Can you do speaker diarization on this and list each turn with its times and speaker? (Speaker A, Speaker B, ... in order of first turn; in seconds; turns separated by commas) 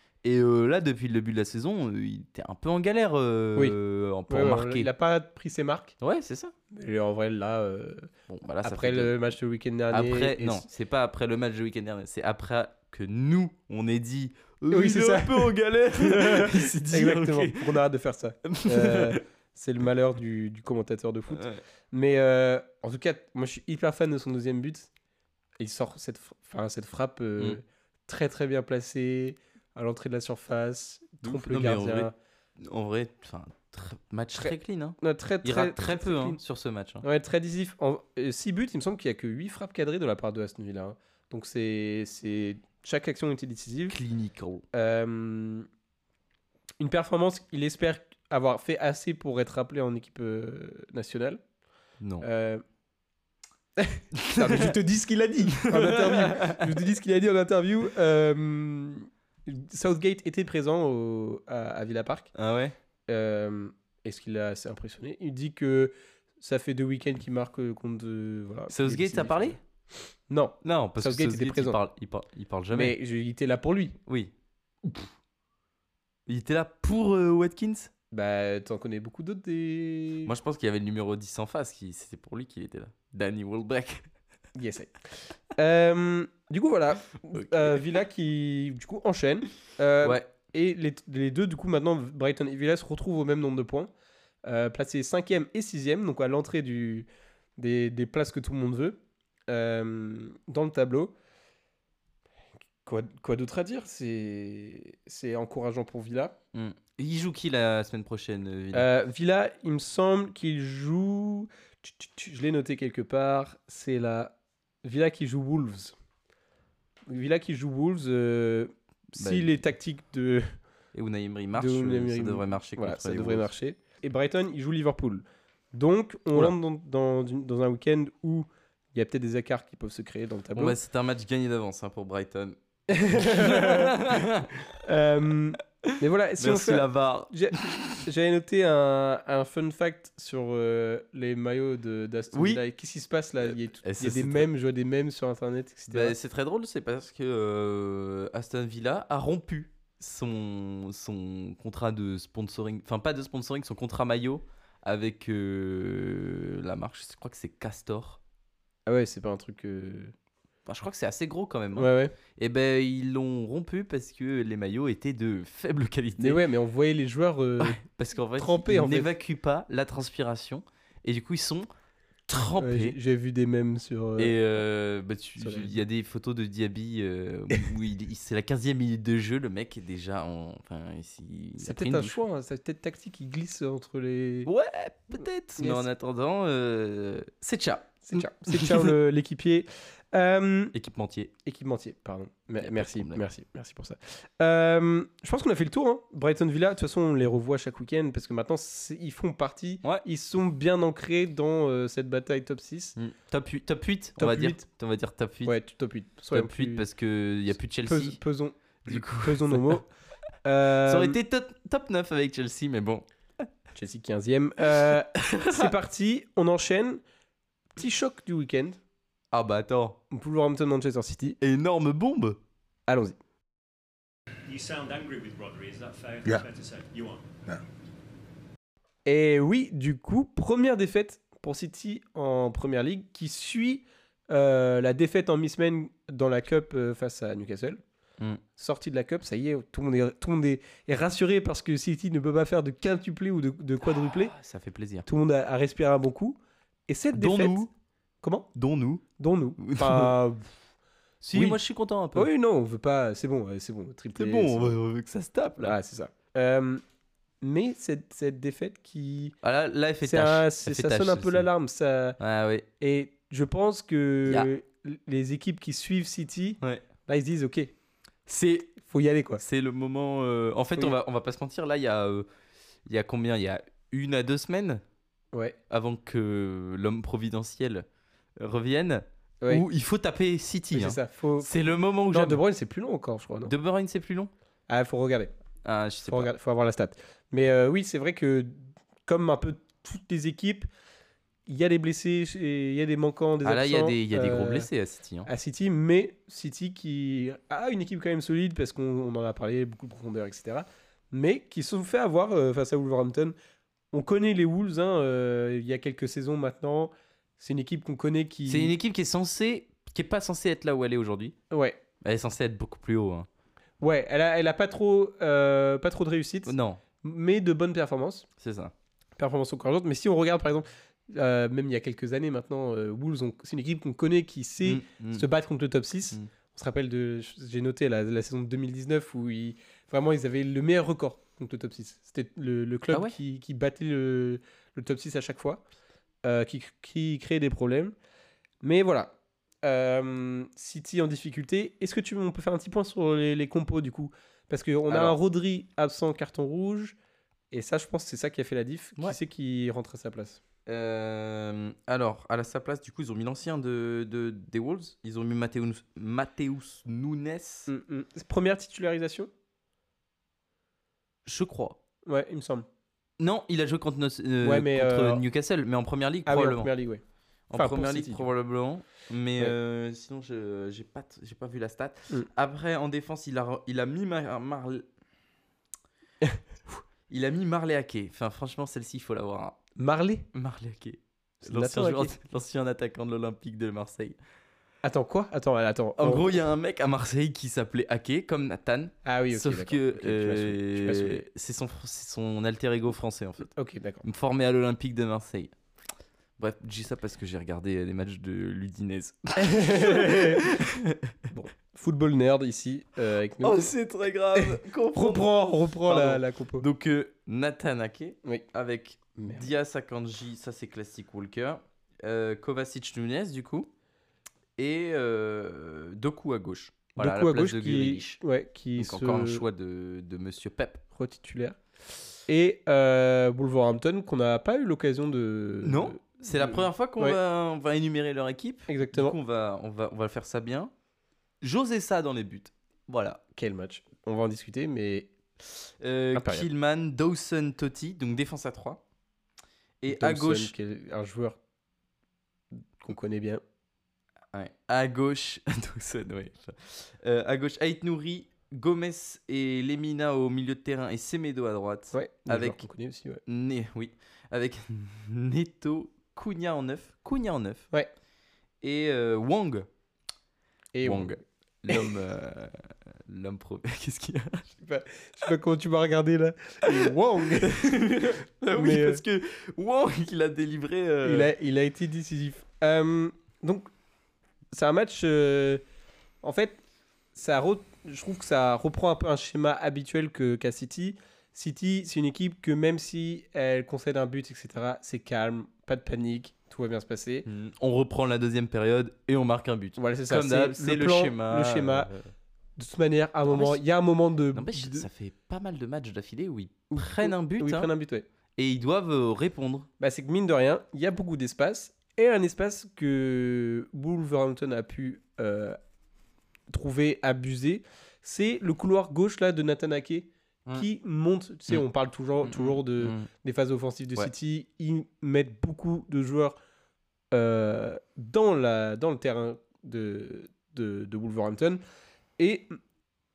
Speaker A: 0.2-4.9, Speaker B: 4.3-5.9, Speaker A: 6.0-6.5, Speaker B: 6.7-8.1, Speaker A: 8.3-9.2, Speaker B: 8.6-10.7, Speaker A: 9.9-17.8, Speaker B: 14.7-24.9, Speaker A: 18.4-19.2, Speaker A: 21.3-21.6, Speaker B: 25.6-32.1, Speaker A: 31.2-37.0, Speaker B: 34.4-36.4, Speaker B: 37.0-44.0, Speaker A: 43.9-44.6, Speaker B: 44.7-45.7, Speaker B: 46.8-51.4, Speaker A: 52.0-52.3, Speaker B: 52.2-52.6, Speaker B: 53.8-62.3, Speaker A: 54.1-54.8, Speaker A: 55.5-56.8, Speaker A: 62.4-62.8, Speaker B: 63.1-69.6, Speaker A: 68.7-69.6, Speaker B: 70.3-71.8, Speaker A: 70.6-72.9, Speaker B: 72.7-74.0, Speaker A: 74.0-74.3, Speaker A: 74.8-75.1, Speaker A: 76.3-77.9, Speaker B: 78.1-80.3, Speaker A: 80.2-84.1, Speaker B: 84.5-84.9, Speaker B: 85.5-93.9, Speaker A: 87.3-87.8, Speaker A: 90.0-90.3, Speaker B: 94.4-101.1, Speaker B: 102.8-106.3, Speaker A: 106.5-108.9, Speaker B: 108.7-115.9, Speaker B: 117.1-120.5, Speaker A: 119.2-119.6, Speaker A: 120.9-123.5, Speaker B: 121.5-130.8, Speaker A: 130.5-132.6, Speaker B: 132.9-134.2, Speaker A: 133.1-134.5, Speaker B: 134.8-146.2, Speaker A: 135.8-138.0, Speaker A: 142.3-142.6, Speaker A: 143.4-144.5, Speaker A: 145.9-158.2, Speaker B: 158.9-160.1, Speaker A: 160.7-166.4, Speaker B: 161.8-162.1, Speaker B: 166.2-167.8, Speaker A: 167.6-171.7, Speaker B: 168.4-169.1, Speaker A: 172.3-173.0, Speaker B: 172.6-174.3, Speaker A: 174.2-182.2, Speaker B: 175.4-175.7, Speaker B: 181.6-184.5, Speaker A: 184.4-188.9, Speaker B: 185.6-185.8, Speaker B: 188.1-190.8, Speaker A: 190.7-191.3, Speaker B: 191.4-202.9, Speaker A: 192.6-193.2, Speaker A: 202.9-205.6, Speaker B: 204.2-204.6, Speaker B: 205.4-206.8, Speaker A: 206.3-208.2, Speaker B: 207.8-209.9, Speaker A: 208.9-209.8, Speaker B: 210.4-211.2, Speaker A: 210.8-213.0, Speaker B: 213.8-217.0, Speaker A: 214.7-215.7, Speaker B: 217.8-218.8, Speaker A: 219.3-220.0, Speaker B: 220.1-221.4, Speaker A: 221.4-222.4, Speaker B: 222.9-223.2, Speaker C: 224.5-227.2, Speaker B: 229.1-237.8, Speaker B: 238.6-244.3, Speaker A: 244.1-245.1, Speaker B: 245.1-247.6, Speaker A: 247.1-247.7, Speaker B: 248.2-248.5, Speaker A: 248.5-249.0, Speaker B: 249.2-250.5, Speaker A: 249.6-250.1, Speaker A: 251.2-252.3, Speaker B: 251.3-251.6, Speaker B: 252.1-254.8, Speaker A: 254.1-255.8, Speaker B: 255.6-256.8, Speaker B: 257.4-259.4, Speaker A: 259.4-261.5, Speaker B: 260.0-262.2, Speaker A: 262.2-262.7, Speaker B: 262.8-267.7, Speaker A: 268.3-268.8, Speaker B: 268.8-269.4, Speaker A: 269.4-272.3, Speaker A: 272.9-274.8, Speaker A: 275.7-277.9, Speaker A: 278.4-282.4, Speaker B: 280.7-283.5, Speaker A: 283.4-284.3, Speaker B: 284.7-285.3, Speaker A: 285.6-286.3, Speaker B: 286.1-290.7, Speaker B: 291.5-294.7, Speaker A: 293.4-295.3, Speaker B: 295.2-303.3, Speaker B: 303.9-308.7, Speaker A: 308.5-311.4, Speaker B: 311.5-311.8, Speaker A: 312.0-313.3, Speaker B: 313.8-318.2, Speaker A: 316.4-316.8, Speaker A: 318.4-318.7, Speaker B: 319.2-335.6, Speaker A: 324.6-325.3, Speaker A: 332.9-333.1, Speaker B: 336.2-337.9, Speaker B: 338.6-346.9, Speaker A: 344.9-345.2, Speaker B: 347.5-350.4, Speaker A: 350.7-357.7, Speaker B: 357.7-359.3, Speaker A: 361.2-361.8, Speaker B: 362.1-362.6, Speaker A: 363.2-366.7, Speaker B: 364.4-365.2, Speaker B: 366.2-367.0, Speaker A: 367.5-374.9, Speaker B: 367.5-368.2, Speaker A: 377.1-379.6, Speaker B: 379.8-380.2, Speaker A: 380.3-384.2, Speaker B: 381.4-382.1, Speaker B: 384.8-386.4, Speaker A: 386.0-393.5, Speaker B: 389.0-391.2, Speaker B: 393.5-394.0, Speaker A: 394.0-395.5, Speaker A: 396.4-401.1, Speaker B: 399.4-400.4, Speaker B: 401.3-403.7, Speaker A: 403.4-413.7, Speaker B: 404.3-406.6, Speaker B: 409.1-409.5, Speaker A: 414.6-418.2, Speaker B: 417.0-419.4, Speaker A: 418.8-420.8, Speaker B: 420.9-421.6, Speaker B: 422.3-427.2, Speaker A: 425.6-430.7, Speaker B: 428.7-429.2, Speaker A: 431.4-433.2, Speaker B: 433.3-435.1, Speaker A: 435.6-438.8, Speaker B: 436.1-436.5, Speaker A: 439.8-440.5, Speaker B: 439.9-441.4, Speaker B: 442.8-443.4, Speaker A: 444.3-452.6, Speaker B: 451.9-453.2, Speaker A: 453.2-457.7, Speaker A: 458.6-459.7, Speaker B: 460.8-461.2, Speaker A: 460.8-464.5, Speaker B: 464.6-467.7, Speaker A: 466.6-471.3, Speaker B: 468.5-469.0, Speaker B: 471.0-473.7, Speaker B: 474.5-475.6, Speaker B: 476.2-476.6, Speaker B: 477.1-487.2, Speaker A: 487.2-492.1, Speaker B: 489.8-491.9, Speaker B: 492.6-494.9, Speaker A: 493.2-493.6, Speaker A: 494.3-497.7, Speaker B: 496.7-498.0, Speaker A: 498.4-499.7, Speaker B: 499.8-505.6, Speaker B: 506.5-516.4, Speaker A: 512.2-513.1, Speaker B: 517.1-521.6, Speaker B: 522.2-522.6